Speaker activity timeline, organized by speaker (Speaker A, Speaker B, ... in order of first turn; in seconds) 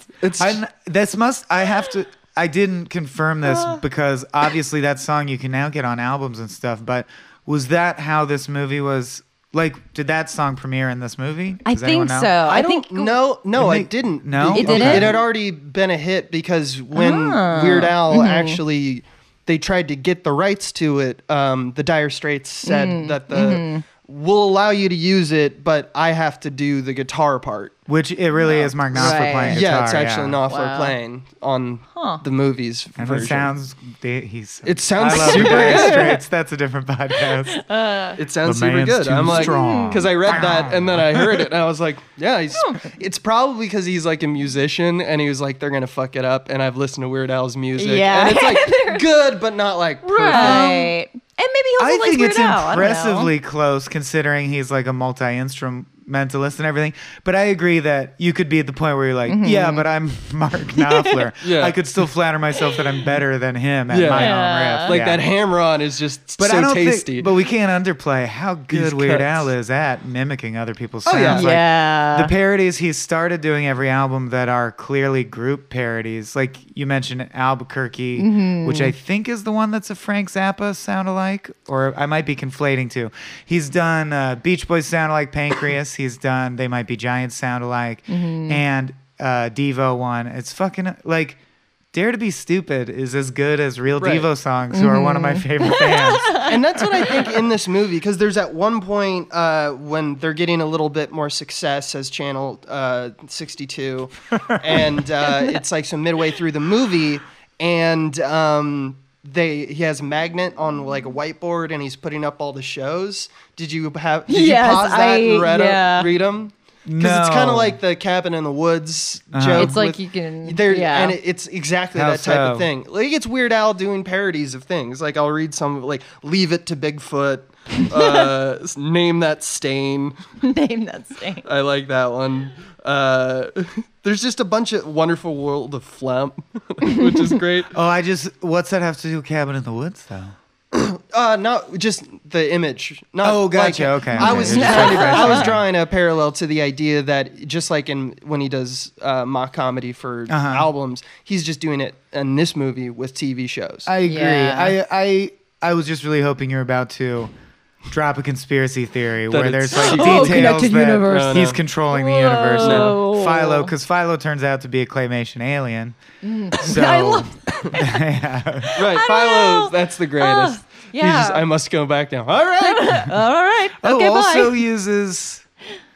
Speaker A: 0.2-0.6, 12.4-27.7, 28.4-33.5, 34.6-36.2, 38.1-50.9, 61.4-61.8, 63.9-67.3, 68.7-69.5, 71.0-71.5, 94.0-94.3, 96.4-130.2, 131.4-137.7, 140.7-153.9, 159.3-161.6, 162.6-162.9, 168.8-173.1
Speaker B: 0.4-12.3, 13.6-15.2, 27.9-30.4, 33.0-37.6, 38.4-41.5, 50.3-50.7, 51.8-65.2, 66.4-91.4, 91.9-96.5, 104.5-104.9, 116.8-117.8, 119.3-119.8, 121.9-122.7, 137.7-140.3, 143.2-145.6, 150.3-150.7, 153.8-157.3, 157.9-166.0, 166.6-168.8, 173.8-175.4
Speaker C: 3.4-3.8, 11.7-13.2, 14.5-15.2, 16.9-18.6, 22.6-23.8, 28.6-29.6, 30.5-30.9, 31.9-32.2, 35.1-36.2, 37.2-38.2, 39.3-40.1, 42.5-42.8, 47.8-49.0, 50.0-53.3, 59.3-59.9, 60.8-61.2, 64.1-64.9, 71.3-72.3, 78.2-78.9, 88.1-88.6, 94.7-96.5, 105.3-105.5, 114.3-116.1, 119.5-121.2, 127.9-128.3, 130.4-131.4, 144.2-145.5, 154.0-154.8, 159.7-163.7, 166.2-168.0, 168.6-171.4, 172.6-174.6